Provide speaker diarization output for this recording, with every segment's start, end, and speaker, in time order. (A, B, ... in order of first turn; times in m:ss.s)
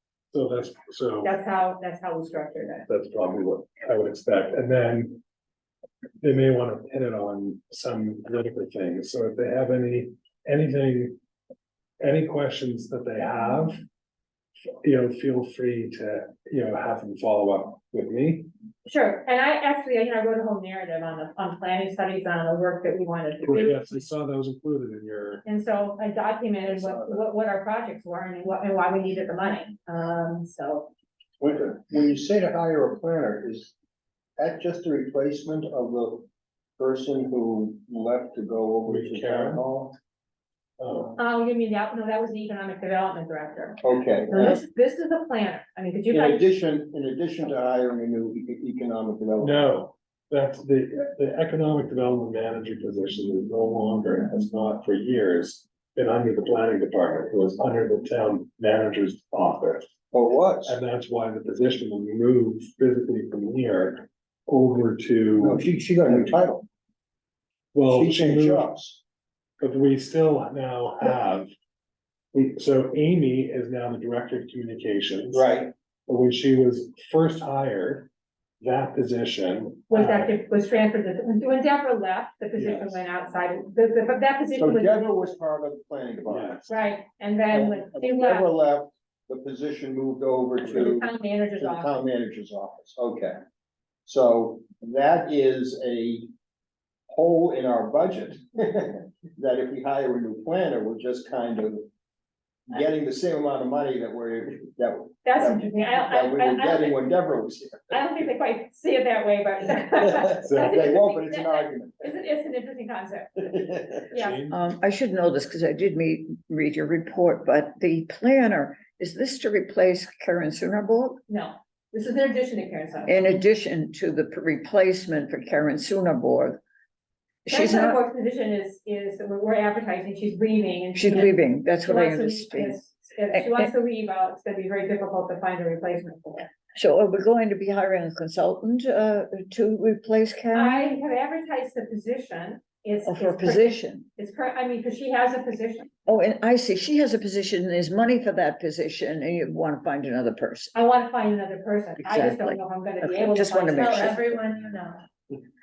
0:00.3-0:01.3 A
0:01.2-0:02.8 B
0:02.9-0:05.2 A
0:06.2-0:11.2 A
0:12.0-0:13.8 A
0:14.8-0:18.5 A
0:18.8-0:24.1 B
0:23.4-0:25.4 A
0:25.4-0:30.9 B
0:26.7-0:27.2 C
0:31.4-0:33.7 C
0:34.4-0:40.0 C
0:38.8-0:39.6 A
0:40.8-0:41.2 A
0:41.2-0:46.4 B
0:43.8-0:44.6 C
0:46.1-0:49.6 C
0:49.4-0:59.9 A
1:00.1-1:00.8 C
1:00.6-1:06.3 A
1:05.4-1:06.6 C
1:07.7-1:08.7 A
1:07.9-1:09.0 C
1:09.6-1:11.5 A
1:12.3-1:15.4 A
1:15.3-1:15.7 C
1:16.1-1:18.1 A
1:18.6-1:20.3 A
1:19.9-1:25.1 B
1:22.6-1:23.0 A
1:24.5-1:26.6 C
1:26.3-1:26.7 A
1:26.7-1:28.4 B
1:27.5-1:33.4 C
1:30.6-1:31.9 B
1:34.0-1:36.3 C
1:37.1-1:41.9 C
1:42.7-1:47.9 C
1:45.2-1:47.0 B
1:47.9-1:53.4 B
1:50.4-1:50.8 A
1:50.6-1:52.1 C
1:53.4-1:53.9 C
1:54.1-1:54.4 B
1:54.1-1:54.6 A
1:54.5-2:01.2 D
2:01.3-2:03.3 B
2:03.1-2:06.6 D
2:07.4-2:08.0 D
2:07.5-2:16.5 B
2:10.9-2:12.8 D
2:13.4-2:13.7 D
2:16.7-2:20.8 D
2:20.5-2:25.9 B
2:23.0-2:24.1 D
2:26.0-2:30.7 D
2:30.7-2:35.0 B
2:32.0-2:34.3 D